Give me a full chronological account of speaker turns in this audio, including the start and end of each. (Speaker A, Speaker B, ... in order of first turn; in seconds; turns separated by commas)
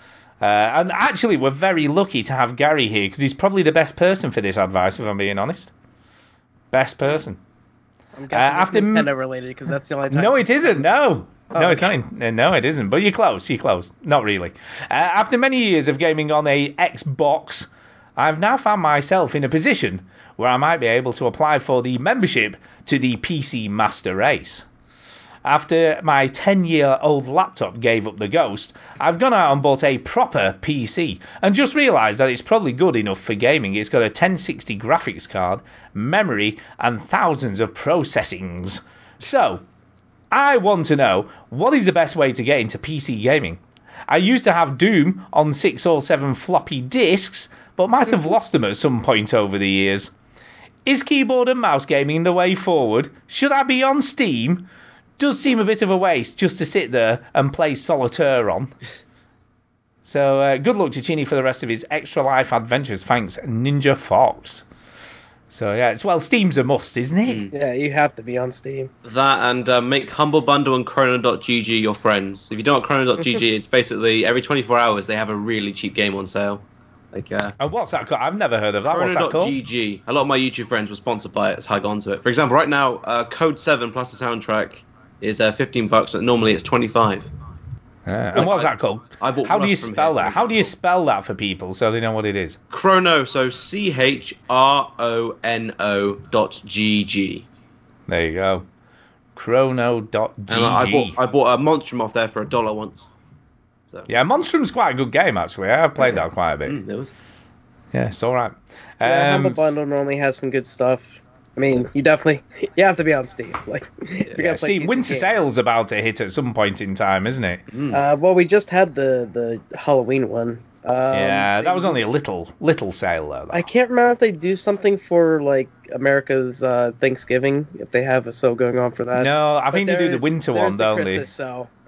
Speaker A: 0.4-5.7, Speaker A: 6.7-7.4, Speaker B: 8.2-10.9, Speaker A: 8.3-9.1, Speaker A: 10.1-24.7, Speaker B: 11.5-11.9, Speaker A: 25.4-39.6, Speaker A: 40.3-50.1, Speaker A: 50.8-54.6, Speaker A: 55.2-58.7, Speaker A: 60.0-64.7, Speaker A: 65.5-67.5, Speaker C: 67.3-67.5, Speaker B: 67.5-68.9, Speaker C: 69.0-77.5, Speaker A: 77.6-79.5, Speaker C: 78.8-87.3, Speaker A: 88.0-92.6, Speaker C: 88.3-90.7, Speaker C: 92.7-97.4, Speaker A: 98.1-98.7, Speaker A: 99.3-101.1, Speaker C: 100.5-103.1, Speaker A: 104.1-106.8, Speaker C: 106.7-107.1, Speaker A: 107.9-109.8, Speaker B: 109.0-115.4, Speaker A: 114.4-117.6, Speaker C: 117.7-118.0, Speaker B: 117.9-122.0, Speaker A: 121.1-123.7, Speaker B: 123.5-131.7, Speaker A: 129.1-131.3